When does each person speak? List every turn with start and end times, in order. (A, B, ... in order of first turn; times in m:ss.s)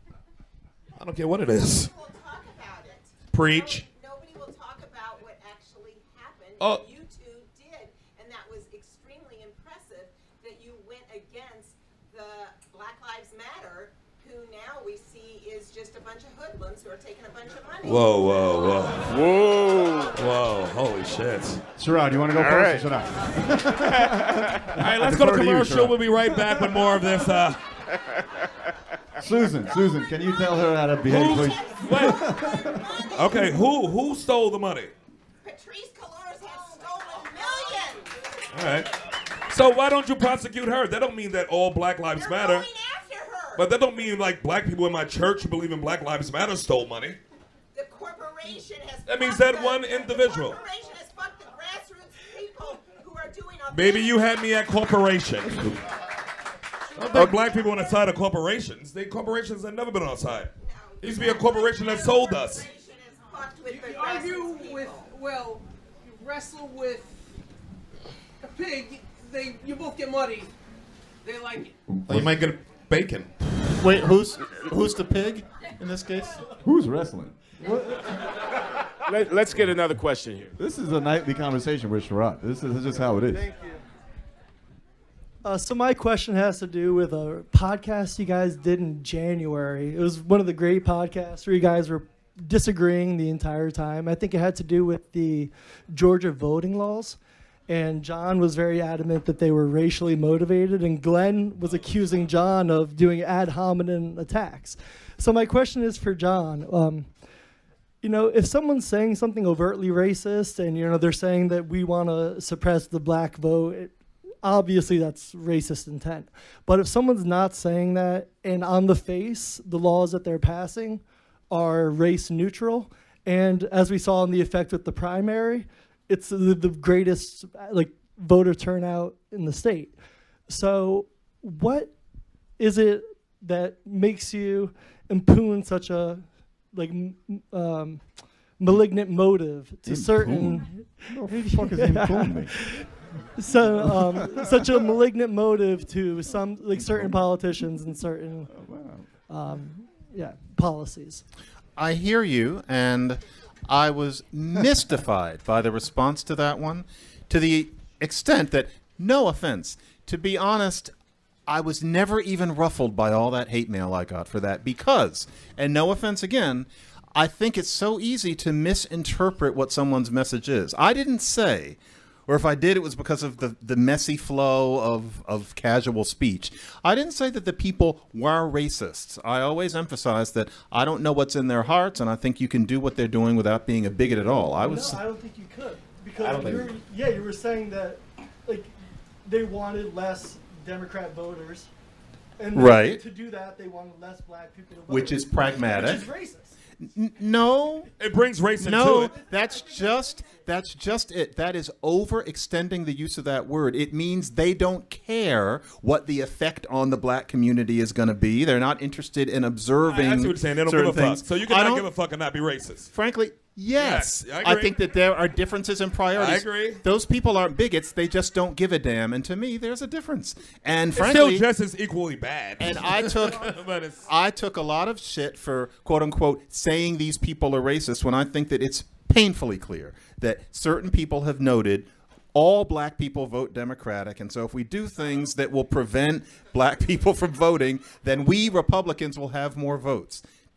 0:01.0-0:01.9 A
0:01.5-0:18.9 B
0:03.3-0:03.8 A
0:06.6-0:06.9 A
0:17.8-0:19.2 A
0:19.1-0:20.2 C
0:20.1-0:21.6 A
0:21.8-0:26.8 D
0:22.3-0:23.0 C
0:23.8-0:24.8 C
0:24.8-0:27.6 A
0:27.9-0:28.8 C
0:29.2-0:32.9 D
0:31.0-0:32.4 A
0:31.1-0:33.7 B
0:33.1-0:34.9 A
0:35.4-0:38.1 B
0:38.5-0:42.7 A
0:42.1-0:43.7 B
0:43.6-0:47.2 A
0:47.7-0:54.5 B
0:49.1-0:50.6 A
0:53.7-0:55.8 A
0:57.0-1:02.7 A
0:57.0-0:58.0 B
1:00.6-1:05.0 B
1:03.7-1:07.2 E
1:08.4-1:10.5 E
1:11.2-1:11.7 E
1:11.9-1:12.4 D
1:12.1-1:13.4 A
1:13.8-1:16.4 F
1:16.6-1:18.1 D
1:19.1-1:20.5 C
1:20.6-1:23.5 D
1:23.3-1:23.8 G
1:25.4-1:47.1 G
1:48.0-2:10.0 G
2:10.5-2:12.0 G
2:12.6-2:28.6 G
2:19.9-2:22.6 D
2:23.5-2:24.9 D
2:26.7-2:27.6 D
2:28.5-2:29.1 D
2:29.3-2:31.2 G
2:31.8-2:40.9 F
2:41.5-3:05.0 F
3:04.6-3:08.7 G
3:06.2-3:06.6 F
3:09.3-3:11.7 G
3:12.4-3:16.5 G
3:12.5-3:13.0 F
3:14.9-3:16.1 F
3:16.8-3:17.9 F
3:18.0-3:19.1 A
3:18.6-3:31.9 F
3:29.8-3:32.9 A
3:32.9-3:41.4 F
3:33.8-3:34.7 A
3:36.1-3:36.8 A
3:41.0-3:44.1 A
3:42.6-4:00.2 F